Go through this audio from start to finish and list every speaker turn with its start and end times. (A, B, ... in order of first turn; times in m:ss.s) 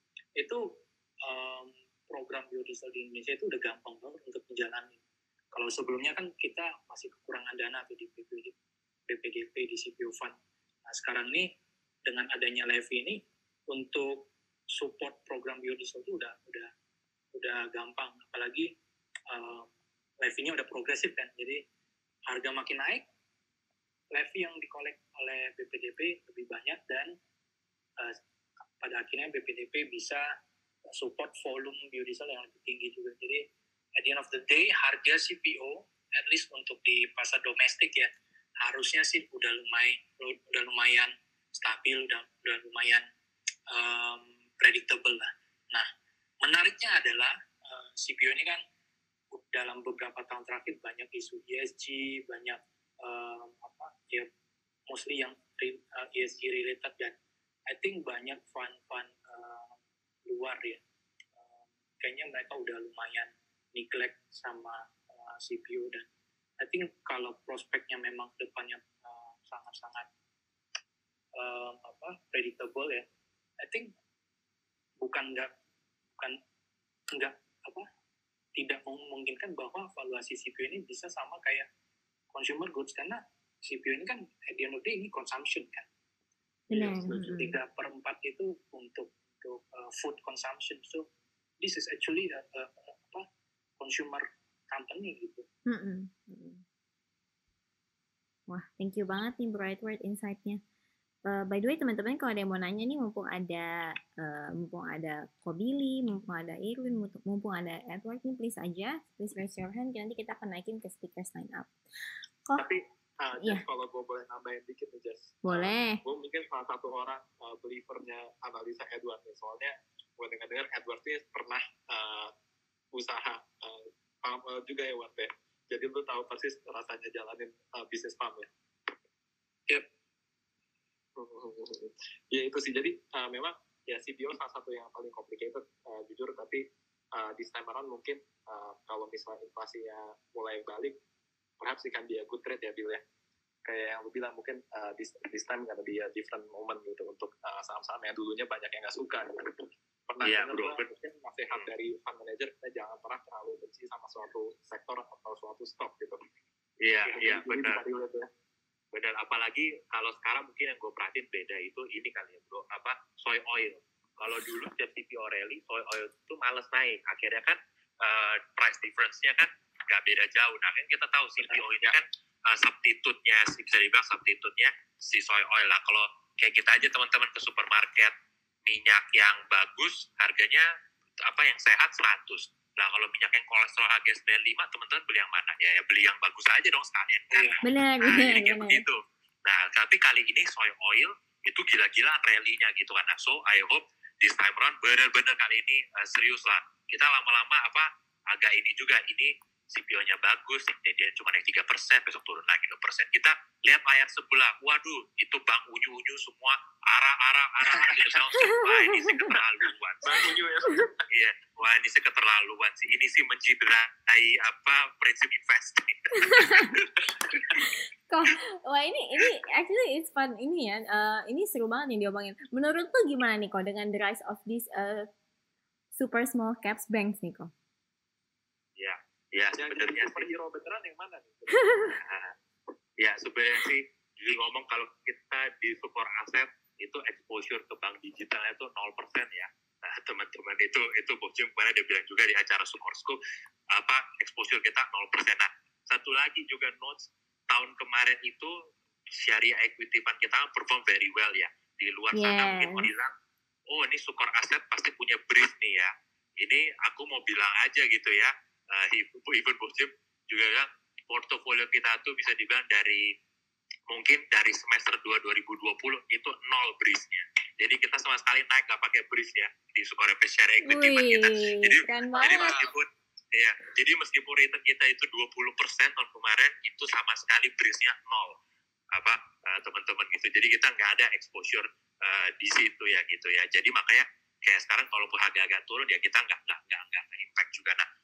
0:00.4-0:05.0 A
0:05.5-0:08.6 A
0:09.1-0:11.5 A
0:12.0-0:16.7 A
0:17.3-0:18.7 A
0:19.3-0:19.7 A
0:20.2-0:21.6 A
0:22.3-0:23.0 A
0:24.1-0:27.2 A
0:28.8-0:30.2 A
0:30.9-0:43.1 A
0:43.7-0:45.9 A
0:46.4-0:48.6 A
0:49.3-0:54.3 A
0:54.9-0:57.2 A
0:57.7-0:59.7 A
1:00.3-1:00.8 A
1:01.4-1:06.1 A
1:06.6-1:10.1 A
1:11.4-1:13.1 A
1:13.6-1:13.9 A
1:15.0-1:15.5 A
1:17.1-1:17.9 A
1:18.5-1:21.7 A
1:22.3-1:25.9 A
1:26.7-1:27.6 B
1:26.7-1:31.1 A
1:31.6-1:33.2 A
1:33.8-1:35.4 A
1:35.6-1:36.6 B
1:38.5-1:40.6 B
1:41.3-1:51.7 B
1:52.6-2:02.3 C
1:55.4-1:56.0 B
2:02.9-2:08.5 C
2:11.2-2:16.6 C
2:17.1-2:21.0 C
2:21.6-2:23.0 C
2:23.6-2:29.5 C
2:30.1-2:36.2 C
2:30.2-2:30.8 D
2:36.8-2:37.8 D
2:37.0-2:38.3 C
2:38.9-2:58.1 D
2:51.4-2:51.9 C
2:58.6-3:00.6 D
3:01.2-3:30.3 D
3:07.6-3:08.8 B
3:27.7-3:28.1 C
3:28.6-3:29.2 B
3:30.0-3:31.0 C
3:31.1-3:37.5 D
3:36.2-3:36.8 B
3:37.6-3:45.1 B
3:45.9-3:47.5 B
3:48.8-3:50.3 D
3:49.5-3:51.9 C
3:52.0-3:52.3 D
3:53.0-4:03.2 D
4:03.7-4:08.5 D
4:09.1-4:13.1 D
4:12.1-4:12.9 B
4:13.7-4:23.1 D
4:23.9-4:38.4 D
4:30.6-4:32.6 B
4:38.9-4:47.8 D